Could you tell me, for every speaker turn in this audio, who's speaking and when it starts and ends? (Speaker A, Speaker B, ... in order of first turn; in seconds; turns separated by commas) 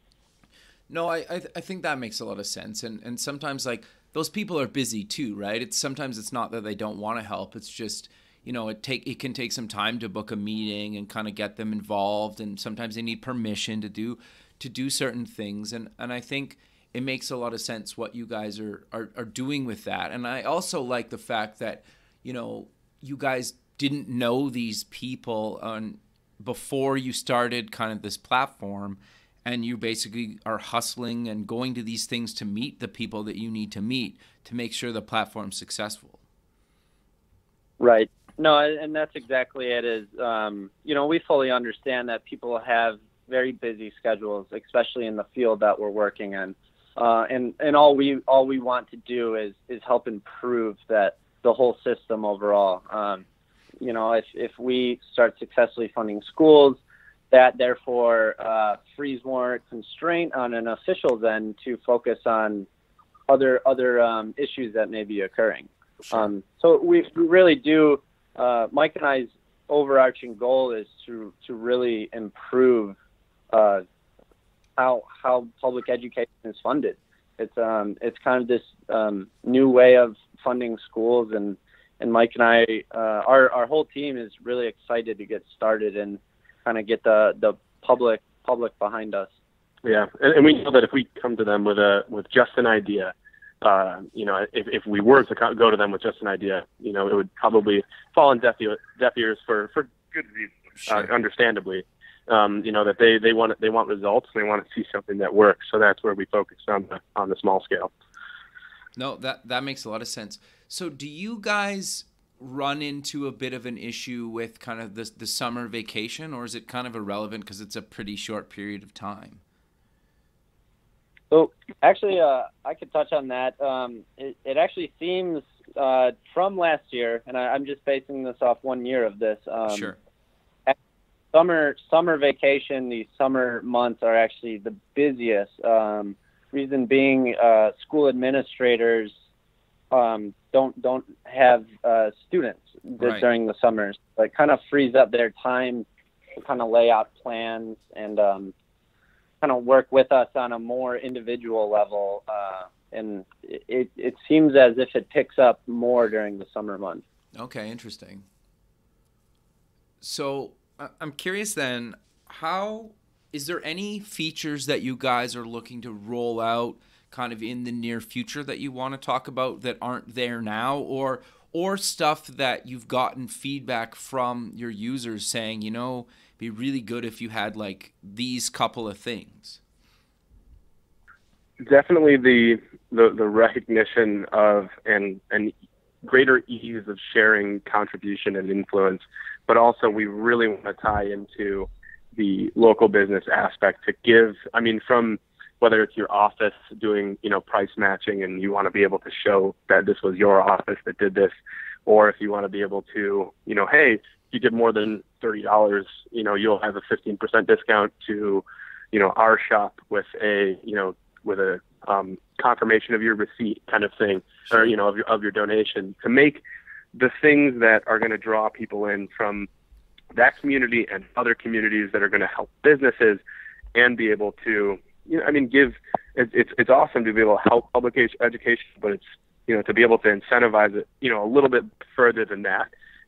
Speaker A: 0.9-36.2, Speaker B: 37.8-53.2, Speaker B: 53.8-56.8, Speaker B: 57.3-62.7, Speaker B: 63.3-73.0, Speaker B: 73.5-73.8, Speaker B: 74.8-89.3, Speaker C: 89.8-107.9, Speaker A: 100.8-101.1, Speaker A: 109.0-119.4, Speaker B: 121.3-129.9, Speaker A: 129.7-130.0, Speaker B: 131.3-139.1, Speaker B: 139.9-148.5, Speaker A: 143.0-143.3, Speaker B: 149.4-157.0, Speaker A: 157.3-158.3, Speaker A: 160.0-179.6, Speaker C: 181.6-185.5, Speaker C: 186.0-201.3, Speaker C: 201.9-216.4, Speaker C: 216.9-219.5, Speaker C: 220.2-223.2, Speaker C: 223.8-232.7